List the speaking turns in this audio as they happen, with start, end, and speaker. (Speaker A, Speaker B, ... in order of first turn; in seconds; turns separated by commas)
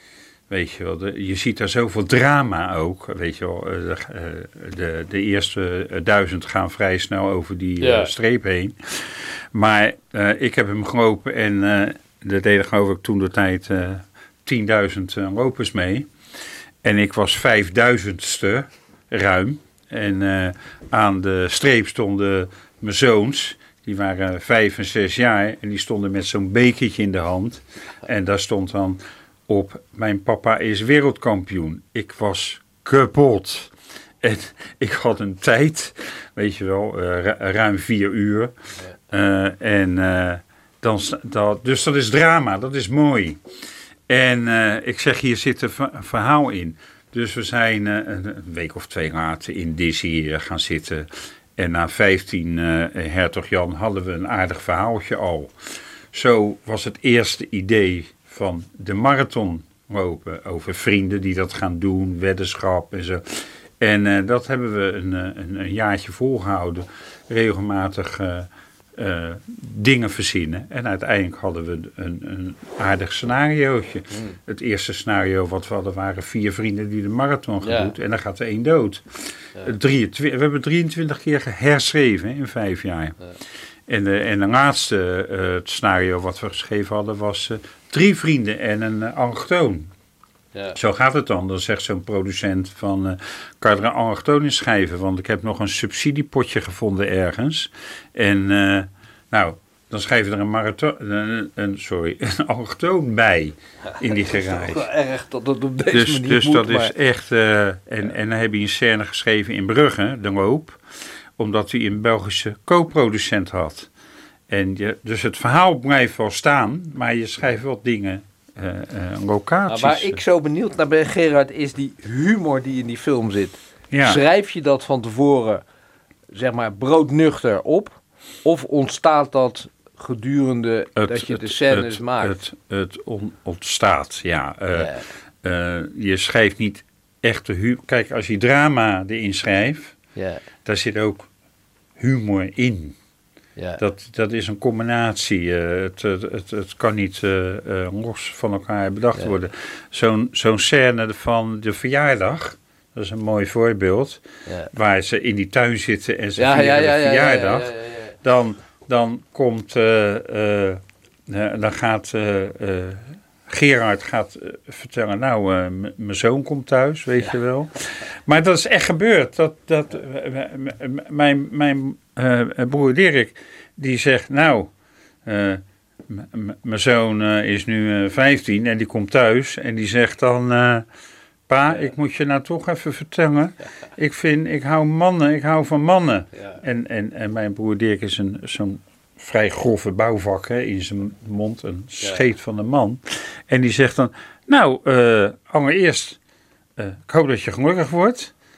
Speaker A: 0.5-16.1, Speaker B: 7.8-8.1, Speaker A: 16.8-38.5, Speaker A: 39.1-43.4, Speaker A: 44.1-55.5, Speaker A: 56.1-83.2, Speaker B: 77.6-77.9, Speaker A: 83.9-89.9, Speaker A: 90.7-104.8, Speaker B: 104.1-106.9, Speaker A: 105.9-110.8, Speaker A: 111.4-113.9, Speaker A: 114.5-120.2, Speaker B: 119.7-125.6, Speaker A: 123.9-124.2, Speaker B: 126.3-132.3, Speaker A: 130.9-139.9, Speaker B: 134.7-135.1, Speaker B: 140.2-140.4, Speaker A: 140.6-141.3, Speaker A: 142.0-143.0, Speaker B: 143.6-143.8, Speaker A: 143.8-174.7, Speaker B: 156.4-158.1, Speaker A: 175.2-180.8, Speaker A: 181.5-196.2, Speaker A: 196.8-198.3